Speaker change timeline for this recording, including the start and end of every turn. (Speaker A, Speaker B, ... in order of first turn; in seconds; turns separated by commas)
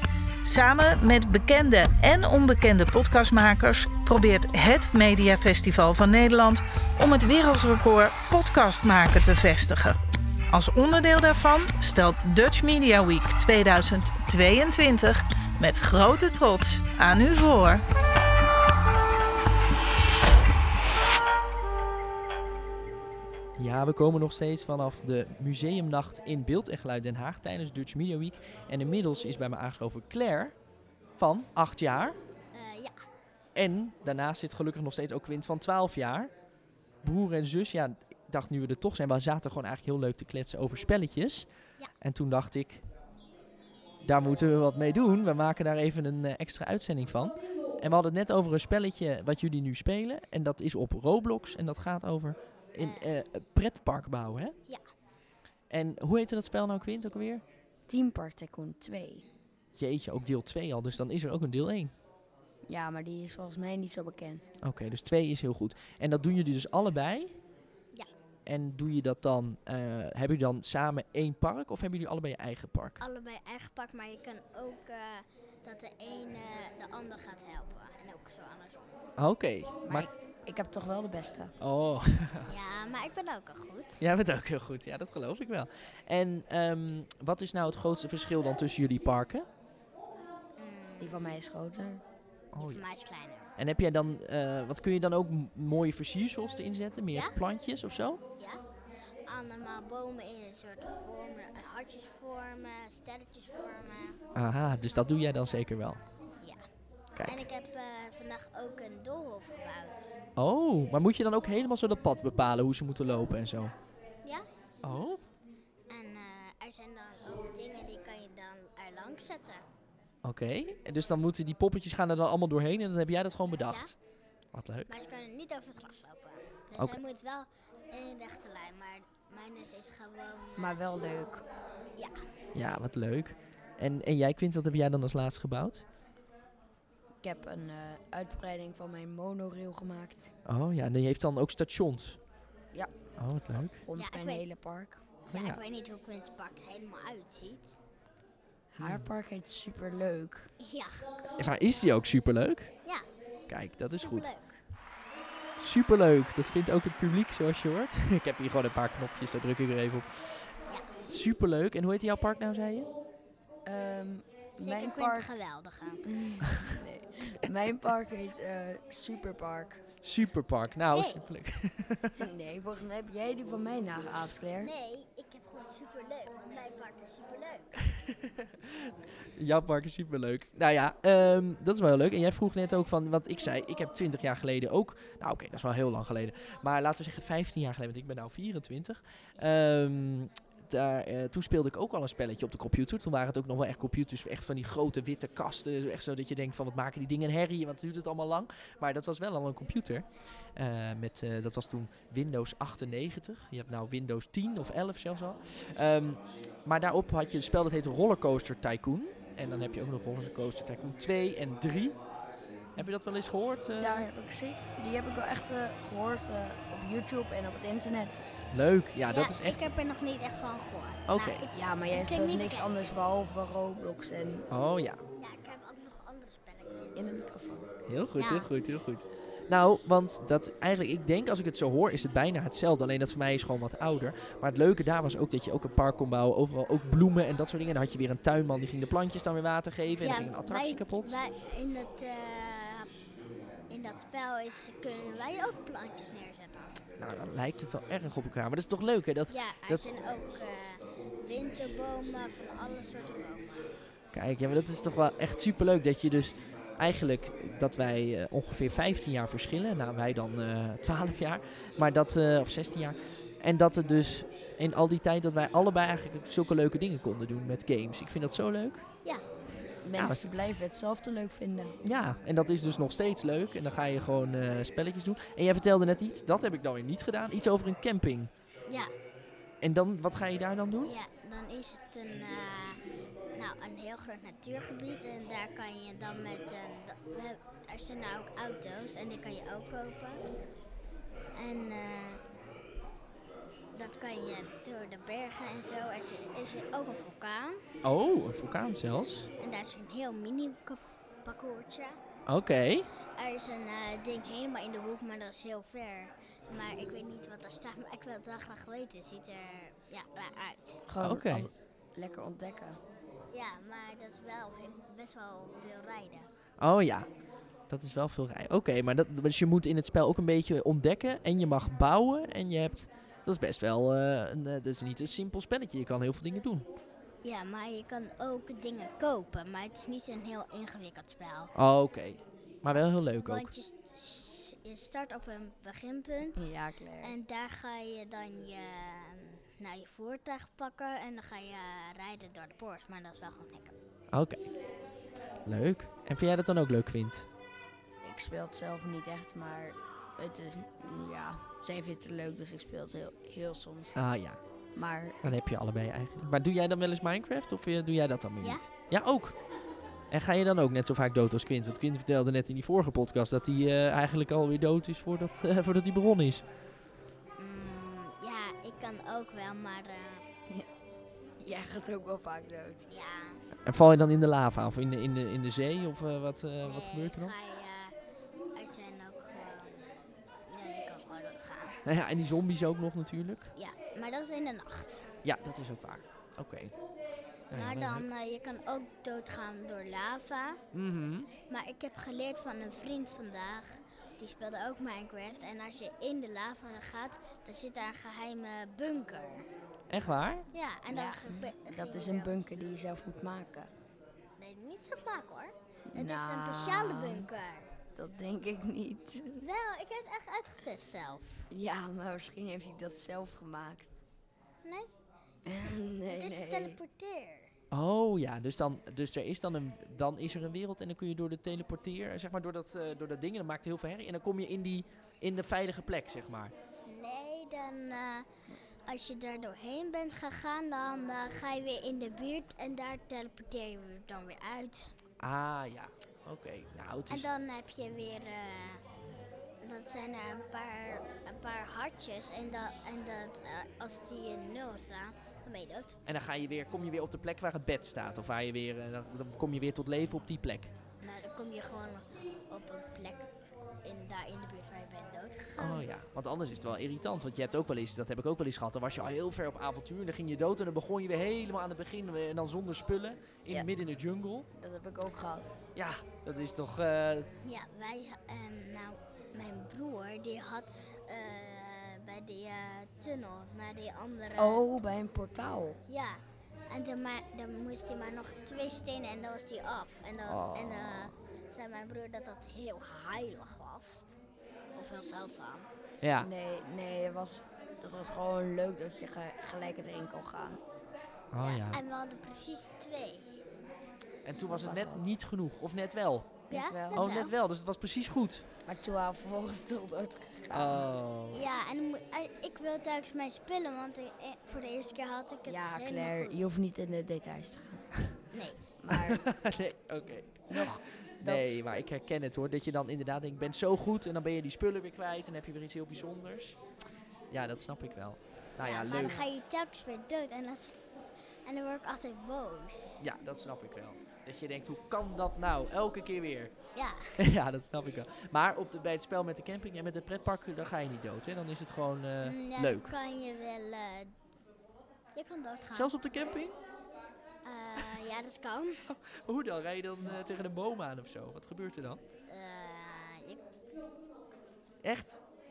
Speaker A: 0.4-10.0, Speaker A: 10.5-17.8, Speaker B: 23.6-30.5, Speaker B: 31.2-32.2, Speaker C: 32.5-32.9, Speaker B: 33.5-36.3, Speaker B: 37.0-41.5, Speaker B: 42.0-42.8, Speaker B: 44.0-54.5, Speaker C: 52.8-53.1, Speaker B: 55.7-57.4, Speaker D: 57.9-59.2, Speaker B: 59.7-61.9, Speaker D: 62.7-64.5, Speaker B: 64.6-67.3, Speaker B: 68.5-73.0, Speaker C: 73.0-79.0, Speaker B: 79.2-80.1, Speaker D: 79.8-81.5, Speaker B: 81.6-82.5, Speaker C: 82.5-84.0, Speaker B: 84.0-89.5, Speaker C: 90.6-91.2, Speaker D: 91.0-92.0, Speaker B: 92.5-92.8, Speaker C: 92.6-93.5, Speaker B: 93.6-98.2, Speaker C: 99.2-104.2, Speaker B: 104.3-106.0, Speaker B: 107.2-107.5, Speaker C: 107.2-110.1, Speaker B: 110.3-113.7, Speaker B: 114.8-115.2, Speaker C: 115.9-119.6, Speaker B: 120.2-123.9, Speaker C: 123.6-123.9, Speaker B: 124.5-124.9, Speaker C: 124.9-130.8, Speaker D: 130.6-131.4, Speaker B: 132.5-135.8, Speaker D: 137.2-140.3, Speaker B: 140.4-142.2, Speaker B: 143.2-143.8, Speaker D: 143.8-145.0, Speaker C: 143.9-144.4, Speaker C: 145.3-147.7, Speaker B: 145.3-145.6, Speaker D: 148.7-150.5, Speaker B: 148.8-149.1, Speaker C: 150.6-151.0, Speaker B: 151.4-152.7, Speaker B: 153.5-154.3, Speaker C: 153.9-154.6, Speaker B: 155.6-160.5, Speaker B: 161.1-162.9, Speaker D: 163.6-165.3, Speaker C: 164.6-166.0, Speaker D: 166.1-169.8, Speaker B: 170.0-172.2, Speaker C: 170.9-171.2, Speaker D: 172.2-174.7, Speaker C: 174.6-177.7, Speaker B: 178.0-211.9, Speaker B: 212.8-214.1, Speaker D: 213.8-218.2, Speaker B: 218.5-219.6, Speaker C: 219.1-222.7, Speaker B: 221.1-221.5, Speaker D: 221.5-224.5, Speaker B: 224.5-225.0, Speaker C: 225.2-227.1, Speaker D: 226.9-227.6, Speaker B: 227.9-241.2, Speaker C: 228.2-228.5, Speaker C: 240.0-242.9, Speaker C: 243.7-246.8, Speaker B: 247.0-249.9, Speaker C: 249.3-253.6, Speaker B: 254.1-268.8, Speaker D: 269.8-271.8, Speaker B: 269.9-270.2, Speaker B: 271.8-278.3, Speaker C: 278.7-278.9, Speaker B: 279.6-280.9, Speaker C: 280.8-282.8, Speaker C: 283.3-290.2, Speaker C: 291.3-292.2, Speaker C: 293.7-297.6, Speaker B: 297.8-299.3, Speaker C: 299.4-302.0, Speaker B: 302.3-302.9, Speaker C: 303.1-310.8, Speaker D: 310.9-312.8, Speaker B: 311.0-311.5, Speaker C: 313.3-316.3, Speaker B: 316.6-317.1, Speaker B: 317.7-326.6, Speaker C: 327.2-331.5, Speaker B: 331.6-333.5, Speaker C: 333.2-336.4, Speaker D: 336.4-337.1, Speaker C: 337.0-343.7, Speaker B: 344.1-344.5, Speaker B: 345.4-347.3, Speaker D: 348.0-354.0, Speaker B: 353.9-354.4, Speaker D: 354.7-355.2, Speaker B: 355.2-359.4, Speaker C: 358.4-358.6, Speaker B: 360.1-366.4, Speaker C: 367.4-370.2, Speaker D: 371.4-372.9, Speaker C: 372.9-373.4, Speaker B: 373.6-377.3, Speaker C: 376.6-377.9, Speaker C: 378.5-379.8, Speaker C: 380.5-381.8, Speaker B: 381.8-383.5, Speaker C: 383.5-385.1, Speaker B: 385.2-386.7, Speaker B: 387.5-388.1, Speaker C: 387.5-390.6, Speaker B: 390.7-391.3, Speaker C: 391.5-399.4, Speaker B: 399.9-400.4, Speaker C: 400.5-402.3, Speaker D: 400.9-403.7, Speaker C: 404.4-407.7, Speaker D: 405.9-407.3, Speaker D: 407.9-409.4, Speaker C: 409.4-411.5, Speaker D: 411.5-414.0, Speaker C: 414.6-414.9, Speaker D: 415.4-416.8, Speaker C: 416.1-417.5, Speaker B: 417.7-426.5, Speaker C: 426.9-428.3, Speaker C: 428.9-434.9, Speaker B: 435.2-437.3, Speaker C: 437.1-438.8, Speaker C: 439.6-445.9, Speaker B: 446.1-450.7, Speaker C: 451.0-453.3, Speaker C: 453.8-455.9, Speaker B: 455.6-464.5, Speaker D: 464.6-465.6, Speaker B: 465.7-467.3, Speaker C: 467.4-474.6, Speaker D: 474.4-475.8, Speaker C: 475.9-484.1, Speaker B: 480.2-481.1, Speaker C: 484.7-485.7, Speaker B: 486.0-486.3, Speaker D: 486.2-490.6, Speaker B: 491.3-491.8, Speaker C: 491.4-493.4, Speaker B: 494.2-496.3, Speaker D: 494.4-495.0, Speaker D: 496.5-497.1, Speaker C: 496.5-497.3, Speaker B: 496.9-498.4, Speaker D: 498.6-500.9, Speaker B: 500.5-501.5, Speaker C: 501.3-506.5, Speaker D: 505.4-508.0, Speaker C: 508.3-508.6, Speaker D: 508.8-509.2, Speaker B: 509.1-516.6, Speaker D: 510.5-511.8, Speaker B: 517.3-519.2, Speaker C: 518.6-520.8, Speaker D: 519.0-519.2, Speaker C: 521.4-523.0, Speaker B: 523.0-526.5, Speaker C: 526.7-527.1, Speaker B: 527.1-532.9, Speaker C: 532.2-534.1, Speaker C: 535.1-535.9, Speaker B: 535.7-536.6, Speaker C: 537.4-538.9, Speaker B: 538.9-542.0, Speaker C: 542.3-543.4, Speaker B: 544.8-545.2